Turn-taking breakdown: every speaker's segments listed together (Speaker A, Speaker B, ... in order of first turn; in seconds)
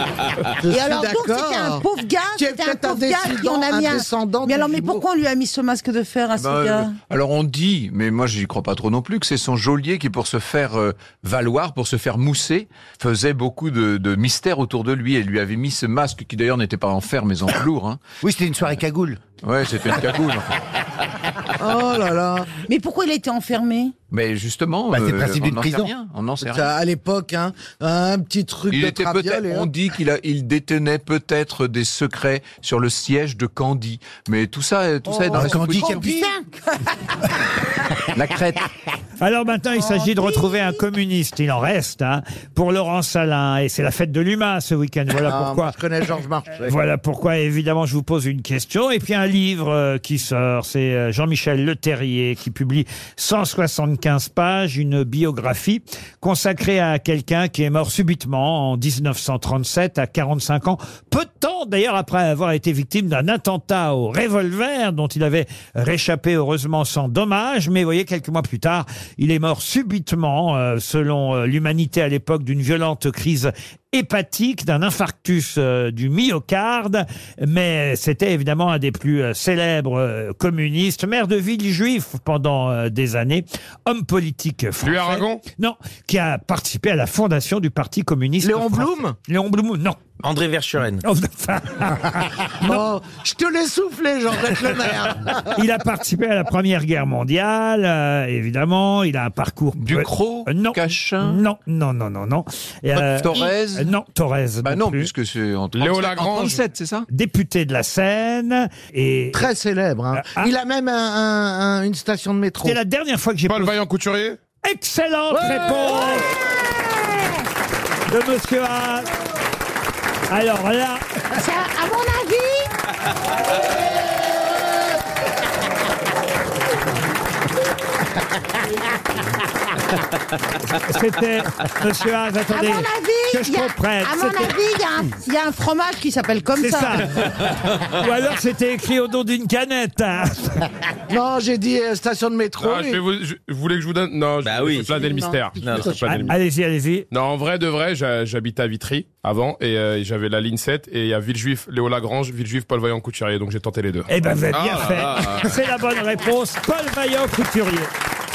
Speaker A: 0.6-1.8, 2.4-5.0, 21.6-22.5, 26.4-29.7, 35.3-36.1, 45.2-46.7, 88.4-89.1, 92.6-95.5, 109.3-112.8, 115.3-115.9, 141.1-143.0, 145.0-146.2
Speaker B: 0.7-6.9, 22.7-23.9, 35.0-36.6, 39.8-40.8, 121.3-122.7, 132.5-137.0
Speaker C: 6.4-18.0, 19.4-20.5, 24.1-26.7, 28.7-36.1, 38.1-38.6, 99.8-101.4, 103.0-103.9, 104.6-107.1
Speaker D: 18.2-19.2, 24.9-25.9, 35.3-36.2
Speaker E: 39.2-45.8, 46.6-90.0, 91.0-92.8, 95.5-105.1, 107.1-109.5, 110.1-110.5, 112.6-113.7, 114.6-116.3, 118.1-119.1, 120.3-121.0, 130.6-134.6, 136.6-137.2, 137.8-140.7, 146.2-147.1, 154.1-157.9
Speaker F: 84.8-85.4, 105.7-106.6, 113.5-114.4, 142.6-146.3, 147.1-155.4
Speaker G: 90.2-91.0, 144.4-145.0, 145.6-146.3